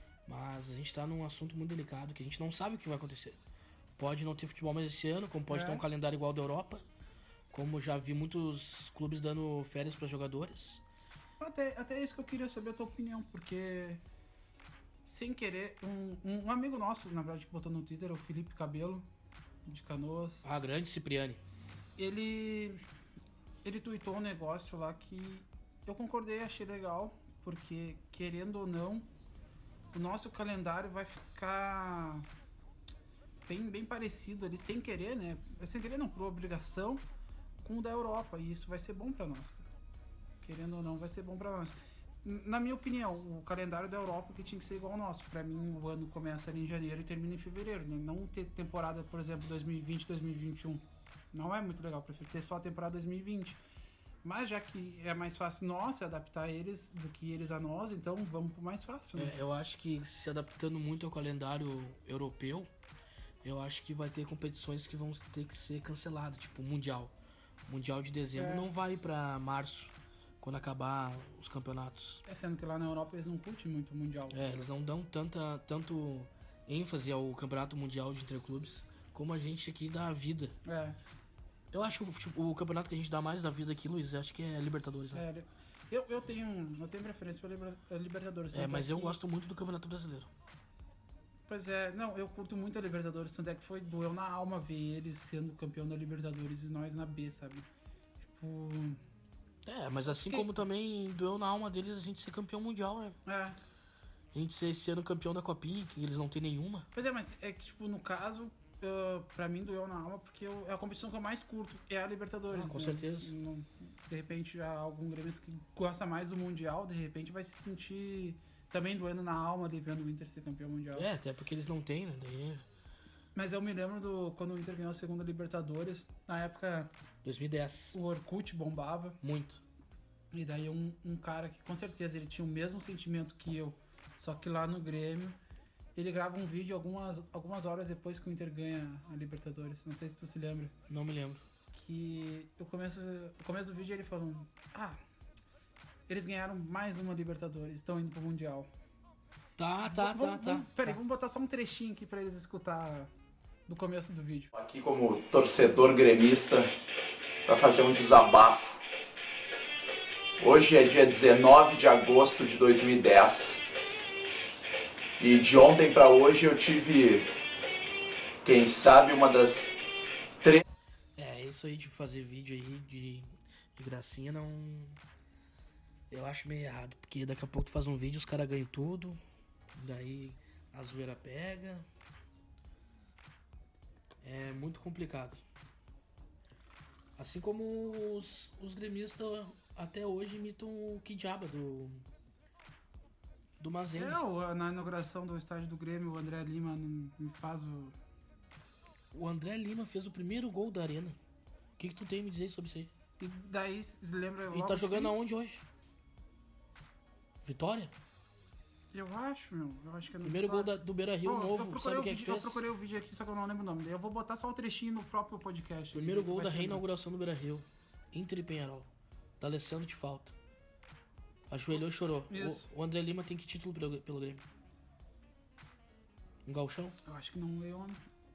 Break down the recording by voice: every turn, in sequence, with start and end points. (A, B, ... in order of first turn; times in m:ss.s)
0:00.3-0:03.4 A
0:04.0-0:06.8 A
0:05.5-0:05.8 B
0:07.5-0:10.8 A
0:11.4-0:14.0 B
0:15.1-0:19.0 B
0:19.7-0:20.5 B
0:20.4-0:21.4 A
0:22.0-0:22.8 B
0:23.6-0:29.1 B
0:29.9-0:32.3 B
0:33.5-0:37.0 B
0:37.6-0:39.7 B
0:40.4-0:53.6 B
0:54.2-0:59.4 B
0:59.2-1:02.7 A
1:03.4-1:07.1 A
1:07.7-1:12.2 A
1:08.4-1:08.7 B
1:12.3-1:14.6 B
1:14.3-1:20.6 A
1:20.6-1:21.0 B
1:21.7-1:25.2 A
1:25.1-1:29.2 B
1:28.5-1:30.3 A
1:31.5-1:37.6 B
1:38.2-1:39.0 B
1:39.6-1:43.2 A
1:40.2-1:40.5 B
1:43.2-1:43.6 B
1:44.3-1:46.9 A
1:46.9-2:01.1 B
1:52.5-1:53.3 A
2:00.9-2:02.7 A
2:03.4-2:06.9 B
2:07.2-2:08.0 A
2:07.9-2:09.2 B
2:09.2-2:09.6 A
2:10.3-2:15.4 B
2:16.0-2:20.7 B
2:20.9-2:21.4 A
2:21.7-2:25.0 B
2:26.1-2:28.7 B
2:29.6-2:31.0 A
2:29.8-2:33.1 B
2:33.7-2:34.5 B
2:34.6-2:36.7 C
2:37.5-2:38.8 C
2:40.4-2:43.6 C
2:45.2-2:47.3 C
2:48.4-2:49.7 C
2:51.2-2:55.0 A
2:56.1-2:59.2 A
2:59.8-3:01.8 A
3:04.2-3:05.4 A
3:07.2-3:12.0 A
3:13.6-3:14.2 A
3:13.9-3:18.0 B
3:19.1-3:21.2 A
3:21.8-3:22.9 A
3:23.2-3:25.2 B
3:24.5-3:25.6 A
3:27.4-3:27.9 A
3:28.9-3:30.7 B
3:30.2-3:32.6 A
3:31.2-3:36.8 B
3:35.9-3:38.9 A
3:39.4-3:40.4 A
3:41.5-3:44.4 A
3:42.3-3:42.7 B
3:46.4-3:47.0 A
3:47.0-3:48.0 B